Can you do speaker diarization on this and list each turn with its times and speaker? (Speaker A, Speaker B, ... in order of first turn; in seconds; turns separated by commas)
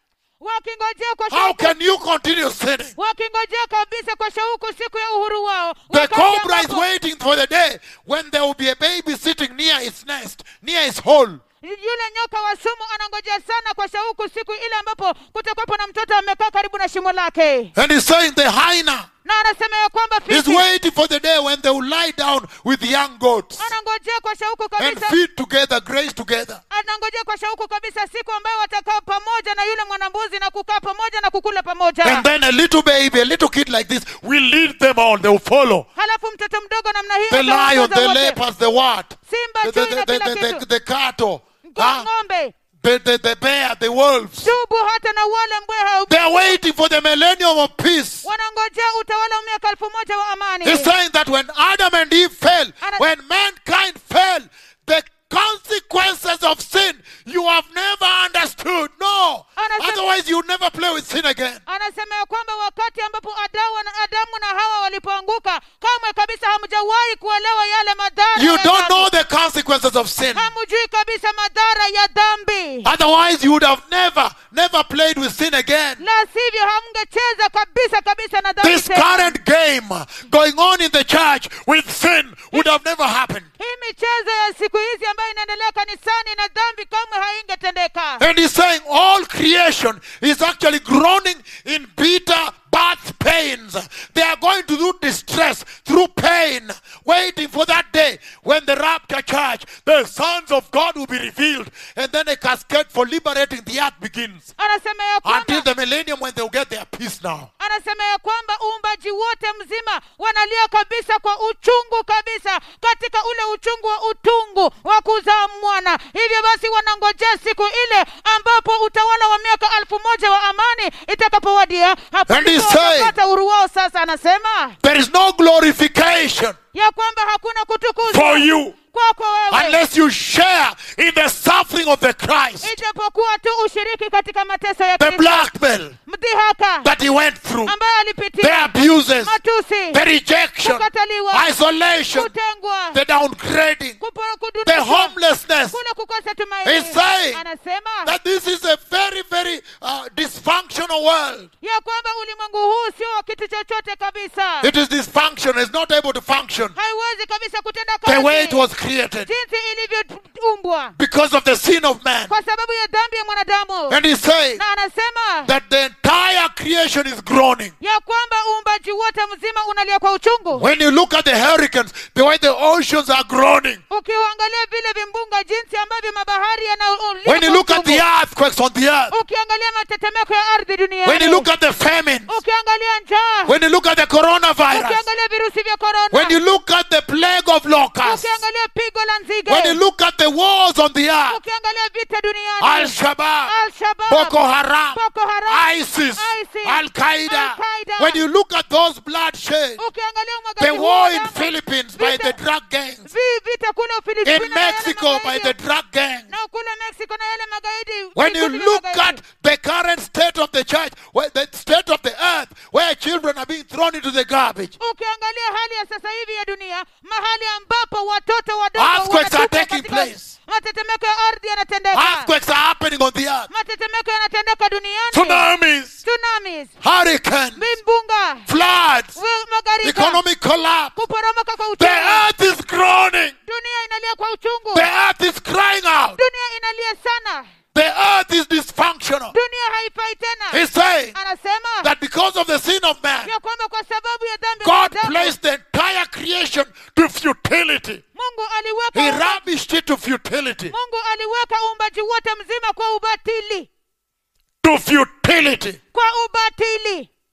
Speaker A: 0.4-1.8, Speaker B: 1.3-2.9, Speaker A: 3.0-6.8, Speaker B: 5.9-11.4, Speaker A: 11.6-17.7, Speaker B: 17.8-19.1, Speaker A: 19.2-20.6, Speaker B: 20.3-23.7, Speaker A: 23.6-25.2, Speaker B: 24.8-26.6, Speaker A: 26.7-32.3, Speaker B: 32.0-35.9, Speaker A: 36.0-38.4, Speaker B: 37.3-42.1, Speaker A: 39.3-40.6, Speaker A: 41.7-42.5, Speaker B: 42.8-44.5, Speaker A: 44.4-46.6, Speaker B: 46.1-48.3, Speaker A: 48.2-50.9, Speaker B: 50.6-61.6, Speaker A: 59.6-60.0, Speaker A: 61.7-69.1, Speaker B: 68.3-70.5, Speaker A: 70.3-72.9, Speaker B: 72.8-76.0, Speaker A: 76.0-79.4, Speaker B: 78.6-83.5, Speaker A: 83.6-88.2, Speaker B: 88.2-104.5, Speaker A: 104.6-105.7, Speaker B: 105.2-107.5, Speaker A: 107.6-124.8, Speaker B: 122.3-123.1, Speaker B: 124.8-126.6, Speaker A: 126.7-129.8, Speaker B: 128.1-128.8, Speaker B: 129.5-132.8, Speaker A: 132.6-135.5, Speaker B: 135.0-135.9, Speaker A: 136.1-136.9, Speaker B: 136.8-137.8, Speaker A: 137.7-140.0, Speaker B: 138.4-139.4, Speaker B: 139.9-142.3, Speaker A: 140.6-141.5, Speaker A: 142.1-143.0, Speaker B: 142.9-144.0, Speaker A: 144.0-145.2, Speaker B: 144.7-145.8, Speaker A: 145.7-148.2, Speaker B: 146.6-147.4, Speaker B: 148.1-151.5, Speaker A: 151.6-154.7, Speaker B: 154.6-156.7, Speaker A: 156.8-158.6, Speaker B: 158.1-159.3, Speaker A: 159.2-160.9, Speaker B: 161.0-162.3, Speaker A: 162.3-164.0, Speaker B: 163.9-164.6, Speaker A: 164.6-165.5, Speaker B: 165.4-167.7, Speaker A: 167.8-170.7, Speaker B: 170.5-173.8, Speaker A: 173.9-178.0, Speaker B: 177.2-179.1, Speaker A: 179.1-181.5, Speaker B: 181.0-182.3, Speaker A: 182.3-183.5, Speaker B: 183.5-185.1, Speaker A: 184.7-186.4, Speaker B: 186.1-188.4, Speaker A: 188.0-189.8, Speaker B: 189.5-191.4, Speaker A: 191.3-198.2, Speaker B: 192.6-193.5, Speaker B: 194.1-199.8, Speaker A: 199.8-202.4, Speaker B: 200.6-203.1, Speaker A: 203.1-205.5, Speaker B: 204.2-206.3, Speaker A: 206.3-209.2, Speaker B: 208.2-214.8, Speaker A: 214.8-222.3, Speaker B: 218.8-220.3, Speaker B: 221.9-223.5, Speaker A: 223.5-225.5, Speaker B: 225.1-226.0, Speaker A: 226.0-226.8, Speaker B: 226.8-227.7, Speaker A: 227.6-228.5, Speaker B: 228.5-229.2, Speaker A: 229.2-230.2, Speaker B: 229.8-230.9, Speaker A: 230.9-232.3, Speaker B: 231.8-233.3, Speaker A: 233.5-234.9, Speaker B: 234.7-236.2, Speaker A: 236.2-237.5, Speaker B: 237.7-239.3, Speaker A: 239.3-240.6, Speaker B: 240.5-241.2, Speaker A: 241.2-241.9, Speaker B: 241.8-243.3, Speaker A: 243.2-245.3, Speaker B: 244.6-248.0, Speaker A: 248.2-249.4, Speaker B: 248.9-250.7, Speaker A: 250.7-253.7, Speaker B: 254.6-255.8, Speaker A: 255.9-257.1